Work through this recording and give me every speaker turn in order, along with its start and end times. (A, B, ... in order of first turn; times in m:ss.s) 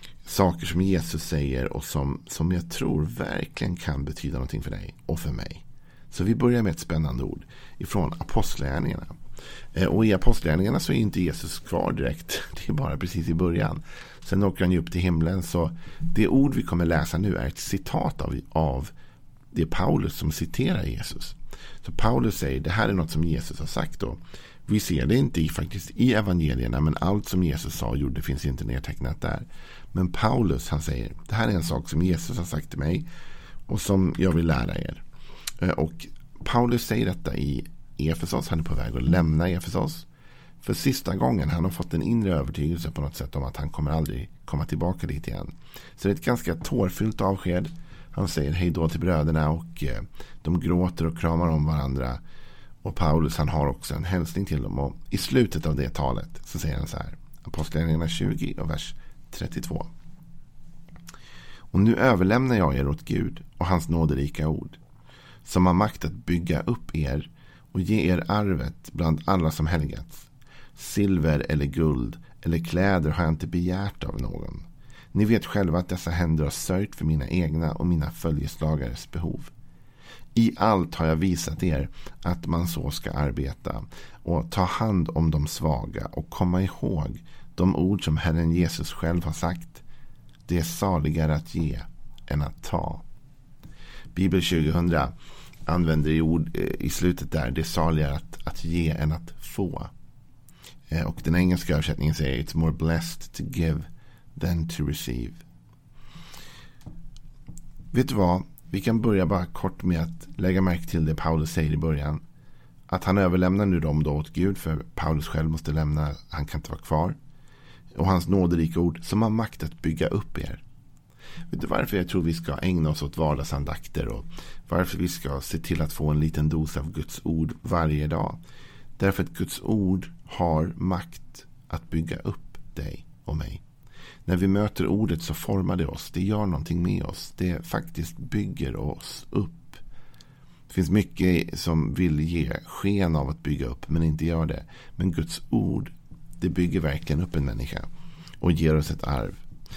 0:00.2-0:09.1 A
0:09.7-0:18.9 A
0:19.5-0:33.1 A
0:33.7-0:35.0 A
0:35.6-0:40.1 A
0:40.6-0:52.2 A
0:52.8-0:59.9 A
1:01.7-1:04.8 A
1:05.4-1:19.5 A
1:20.3-1:29.8 A
1:30.5-1:33.0 A
1:34.1-1:35.1 A
1:35.7-1:39.9 A
1:40.9-1:45.4 A
1:47.9-1:52.2 A
1:52.9-1:57.2 A
1:57.9-2:00.6 A
2:01.5-2:08.4 A
2:09.0-2:13.6 A
2:14.2-2:19.8 A
2:20.7-2:27.9 A
2:28.4-2:29.4 A